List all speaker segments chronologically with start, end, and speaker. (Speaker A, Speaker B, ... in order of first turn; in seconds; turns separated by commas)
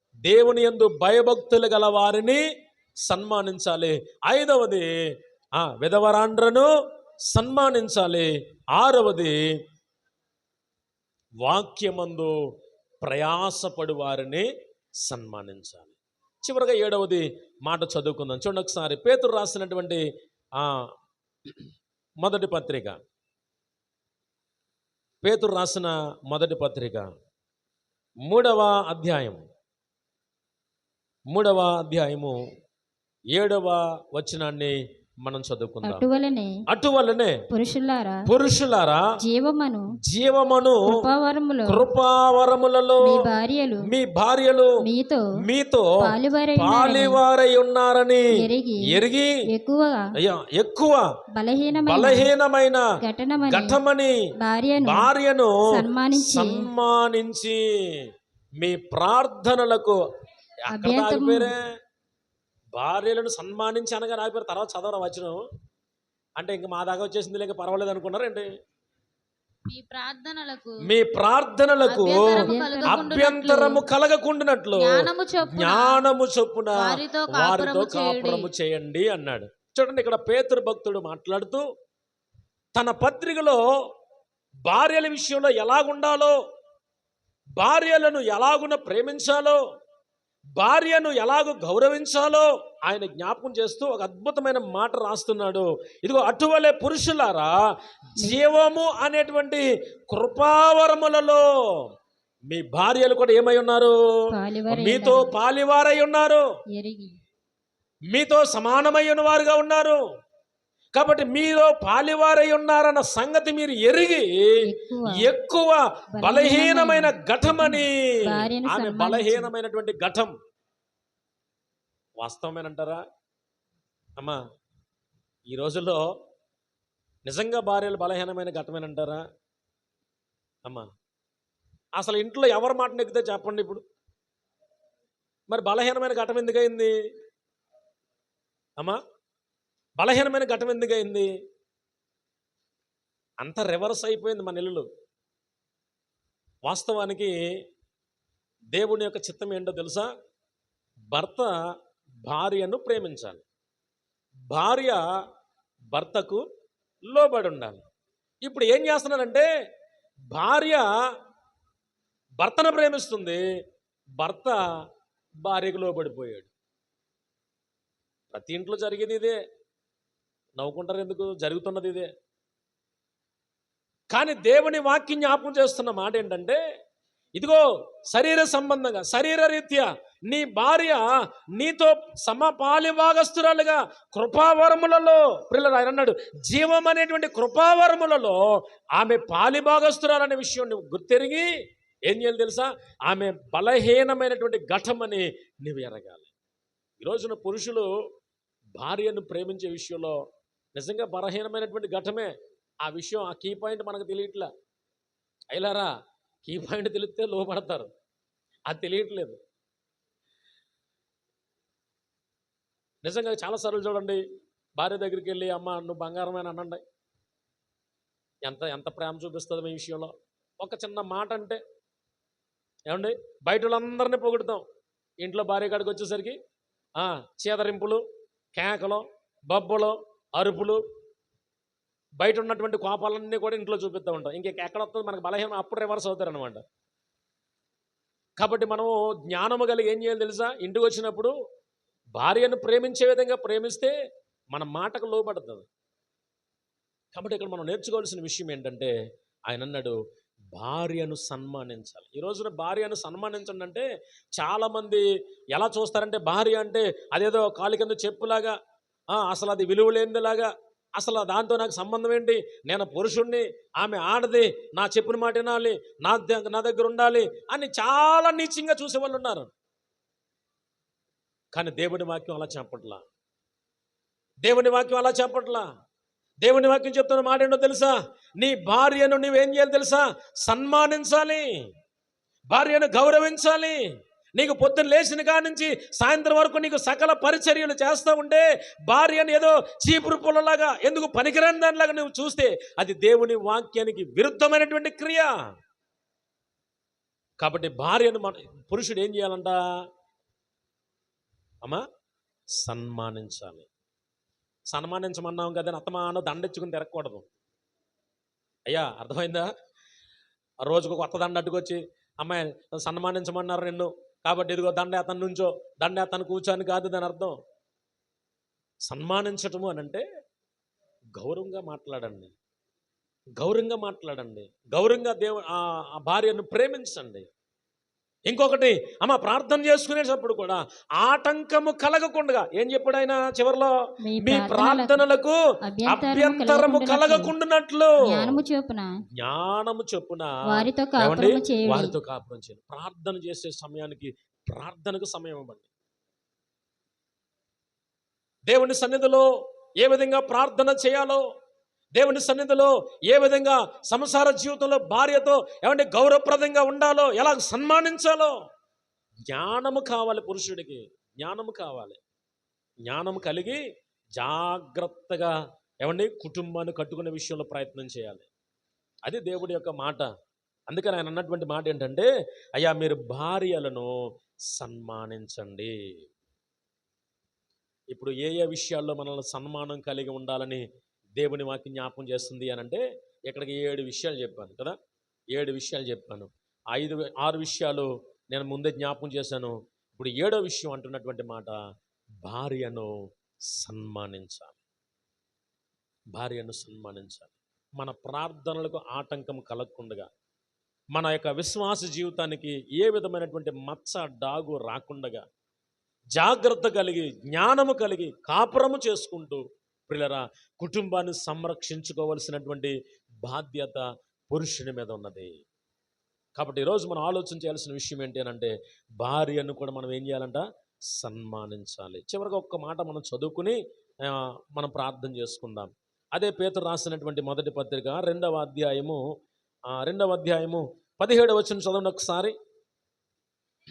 Speaker A: 0.3-2.5, Speaker A: 3.1-4.9, Speaker A: 5.6-6.7, Speaker A: 7.3-9.4, Speaker A: 11.4-12.3, Speaker A: 13.0-14.5, Speaker A: 15.1-20.0, Speaker A: 20.6-20.9, Speaker A: 22.2-23.0, Speaker A: 25.2-27.1, Speaker A: 28.3-29.4, Speaker A: 31.3-32.4, Speaker A: 33.3-36.0, Speaker B: 35.8-36.6, Speaker A: 36.7-37.4, Speaker B: 37.5-38.3, Speaker A: 38.3-39.0, Speaker B: 39.2-39.9, Speaker A: 40.1-41.0, Speaker B: 40.9-41.8, Speaker A: 41.7-43.2, Speaker B: 43.0-43.9, Speaker A: 43.8-44.8, Speaker B: 44.8-45.3, Speaker A: 45.4-46.0, Speaker B: 46.0-47.2, Speaker A: 46.6-49.4, Speaker B: 48.3-49.0, Speaker B: 49.5-50.1, Speaker A: 50.2-51.0, Speaker B: 51.4-52.3, Speaker A: 51.8-52.9, Speaker B: 53.0-53.8, Speaker A: 53.5-54.1, Speaker B: 54.4-55.1, Speaker A: 54.8-58.1, Speaker B: 55.7-56.7, Speaker A: 58.6-60.0, Speaker A: 60.7-61.7, Speaker B: 60.7-61.5, Speaker A: 62.8-65.4, Speaker A: 66.4-68.5, Speaker C: 69.7-70.8, Speaker A: 70.8-81.7, Speaker C: 71.9-73.8, Speaker B: 72.3-73.1, Speaker C: 74.8-76.0, Speaker C: 76.8-78.5, Speaker A: 82.8-83.6, Speaker A: 84.7-86.4, Speaker A: 87.6-89.6, Speaker A: 90.6-97.6, Speaker A: 98.2-101.8, Speaker A: 102.5-104.0, Speaker B: 104.3-105.3, Speaker A: 104.7-106.5, Speaker B: 106.7-107.2, Speaker A: 108.1-110.0, Speaker A: 111.0-120.3, Speaker B: 114.7-115.3, Speaker B: 116.2-119.5, Speaker A: 122.2-123.0, Speaker A: 125.5-126.1, Speaker A: 127.3-129.2, Speaker A: 132.0-133.8, Speaker A: 135.5-137.0, Speaker A: 140.0-141.3, Speaker A: 143.4-144.9, Speaker A: 146.7-147.4, Speaker A: 148.7-150.1, Speaker A: 151.1-151.5, Speaker A: 152.3-153.4, Speaker A: 154.5-155.0, Speaker A: 155.9-156.4, Speaker A: 157.1-157.8, Speaker A: 158.4-159.5, Speaker A: 160.3-160.9, Speaker A: 162.4-163.4, Speaker A: 164.2-164.6, Speaker A: 165.4-166.5, Speaker A: 168.3-169.4, Speaker A: 170.6-172.1, Speaker A: 174.1-176.6, Speaker A: 177.4-181.0, Speaker A: 181.6-188.4, Speaker A: 188.9-191.5, Speaker A: 192.1-196.3, Speaker A: 197.0-197.9, Speaker A: 198.8-200.2, Speaker A: 200.8-204.5, Speaker A: 205.5-205.9, Speaker A: 206.5-207.9, Speaker A: 208.7-209.4, Speaker A: 213.0-214.2, Speaker A: 214.8-216.8, Speaker A: 218.4-221.6, Speaker A: 222.9-224.6, Speaker A: 225.2-226.4, Speaker A: 227.0-230.8, Speaker A: 232.2-236.6, Speaker A: 238.4-241.3, Speaker A: 242.2-243.9, Speaker A: 244.5-245.7, Speaker A: 247.1-248.9, Speaker A: 249.5-250.0, Speaker A: 250.6-253.8, Speaker A: 254.4-258.6, Speaker A: 259.1-269.5, Speaker A: 271.6-273.0, Speaker A: 274.4-275.7, Speaker A: 276.4-281.5, Speaker A: 282.5-283.8, Speaker A: 284.4-295.3, Speaker A: 297.4-299.6, Speaker A: 302.6-303.7, Speaker A: 304.7-307.2, Speaker A: 308.7-309.5, Speaker A: 310.6-317.4, Speaker A: 318.9-320.0, Speaker A: 321.2-322.3, Speaker A: 323.4-327.3, Speaker A: 328.3-338.4, Speaker B: 334.1-335.0, Speaker B: 335.6-337.3, Speaker B: 338.1-338.9, Speaker A: 339.2-345.7, Speaker B: 340.5-341.9, Speaker A: 348.5-349.3, Speaker A: 349.8-351.2, Speaker A: 351.9-358.4, Speaker A: 359.3-362.0, Speaker A: 362.9-363.6, Speaker A: 364.2-368.3, Speaker A: 369.1-370.1, Speaker A: 370.7-373.9, Speaker A: 374.5-375.7, Speaker A: 377.9-380.6, Speaker A: 381.2-384.8, Speaker A: 385.3-391.6, Speaker A: 392.2-392.9, Speaker A: 393.6-394.6, Speaker A: 396.1-400.1, Speaker A: 400.9-405.2, Speaker A: 406.2-412.7, Speaker A: 413.2-415.3, Speaker A: 416.4-420.4, Speaker A: 421.0-429.0, Speaker A: 429.7-432.4